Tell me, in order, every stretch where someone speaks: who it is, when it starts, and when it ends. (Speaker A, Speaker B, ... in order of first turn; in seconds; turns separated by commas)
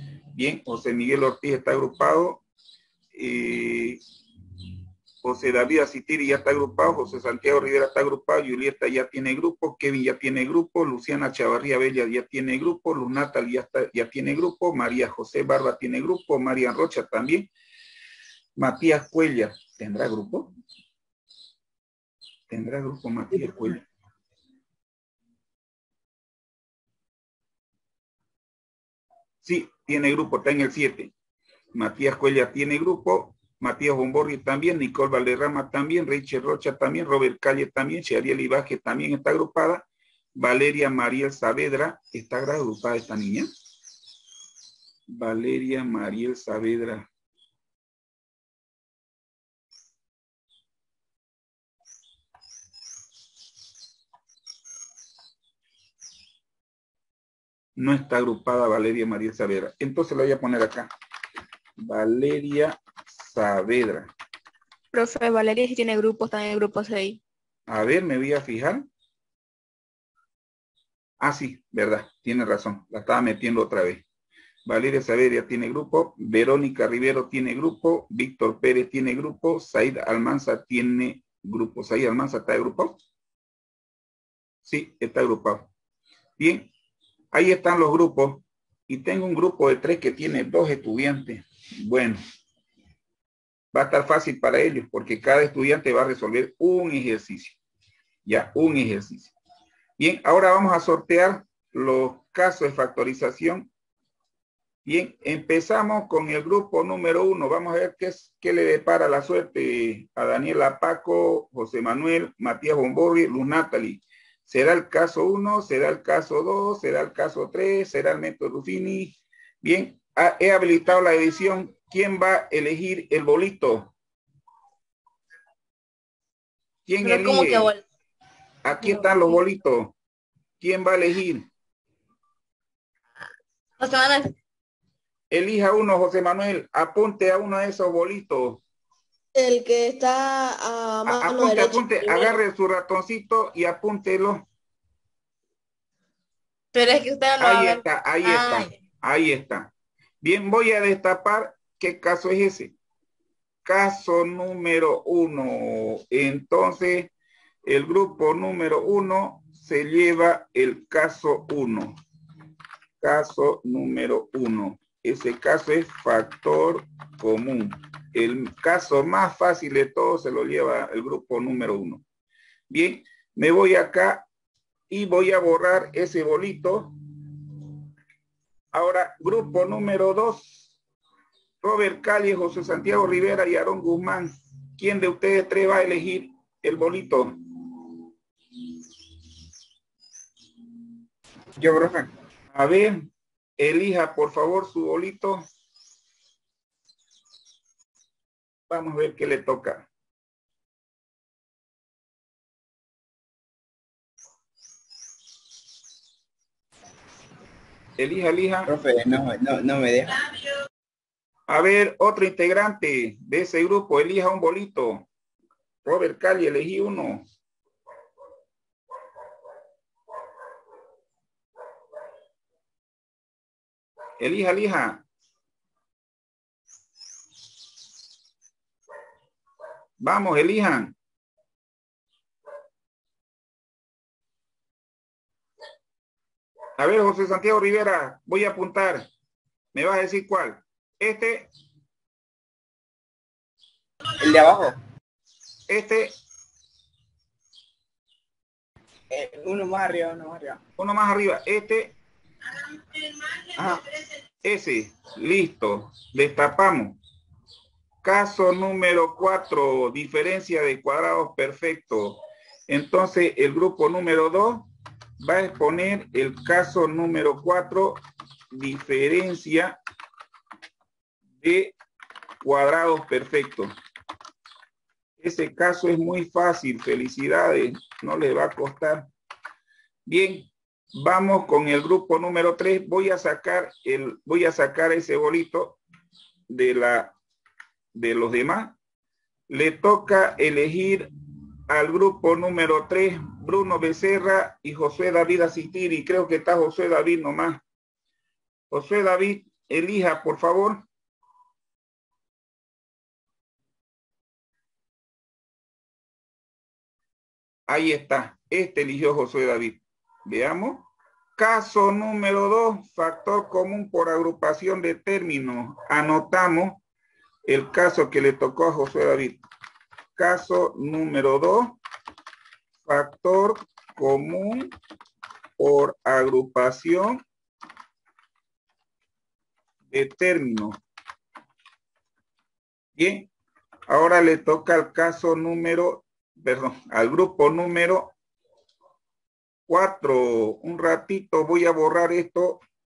Speaker A: 0.3-2.4, Speaker A: 3.1-4.0, Speaker A: 5.2-17.5, Speaker A: 18.6-20.5, Speaker A: 22.5-23.8, Speaker A: 29.4-31.1, Speaker A: 31.7-39.8, Speaker A: 40.4-43.5, Speaker A: 45.1-47.0, Speaker A: 57.8-60.9, Speaker A: 61.8-64.1, Speaker B: 64.9-67.2, Speaker A: 67.7-68.8, Speaker A: 71.2-74.0, Speaker A: 74.7-83.0, Speaker A: 84.6-85.7, Speaker A: 86.4-86.7, Speaker A: 87.3-92.2, Speaker A: 93.7-97.6, Speaker A: 98.2-99.3, Speaker A: 100.0-103.7, Speaker A: 104.8-123.9, Speaker A: 126.8-127.7, Speaker C: 127.0-127.8, Speaker A: 128.6-129.9, Speaker A: 130.6-131.5, Speaker C: 133.9-134.1, Speaker A: 135.3-138.6, Speaker D: 139.3-142.4, Speaker A: 141.0-144.4, Speaker C: 147.1-147.8, Speaker A: 147.4-149.7, Speaker C: 148.3-148.7, Speaker A: 150.2-152.7, Speaker A: 153.6-157.1, Speaker A: 157.6-161.9, Speaker A: 163.0-172.0, Speaker A: 172.7-174.2, Speaker A: 174.9-176.9, Speaker A: 178.7-180.7, Speaker A: 181.6-187.3, Speaker E: 191.6-192.1, Speaker A: 192.5-193.1, Speaker A: 193.6-195.4, Speaker A: 198.7-199.8, Speaker A: 208.0-208.7, Speaker E: 208.7-210.2, Speaker A: 211.5-215.1, Speaker A: 215.8-217.2, Speaker A: 224.2-225.0, Speaker A: 230.0-230.9, Speaker A: 236.8-239.1, Speaker A: 239.7-241.5, Speaker E: 244.2-244.8, Speaker A: 245.7-246.1, Speaker E: 249.1-250.6, Speaker A: 250.8-251.9, Speaker E: 253.5-253.8, Speaker A: 254.4-257.0, Speaker A: 258.0-264.7, Speaker A: 265.2-269.8, Speaker A: 271.4-271.7, Speaker A: 272.4-273.7, Speaker A: 275.2-279.1, Speaker A: 280.1-285.8, Speaker A: 286.5-287.1, Speaker A: 287.9-288.7, Speaker A: 289.5-291.1, Speaker A: 291.7-297.6, Speaker A: 298.7-300.8, Speaker A: 307.7-316.8, Speaker A: 317.5-319.4, Speaker A: 320.1-321.8, Speaker A: 322.8-324.7, Speaker A: 325.6-327.2, Speaker A: 329.9-330.8, Speaker A: 333.0-333.3, Speaker A: 333.9-338.1, Speaker A: 339.7-342.6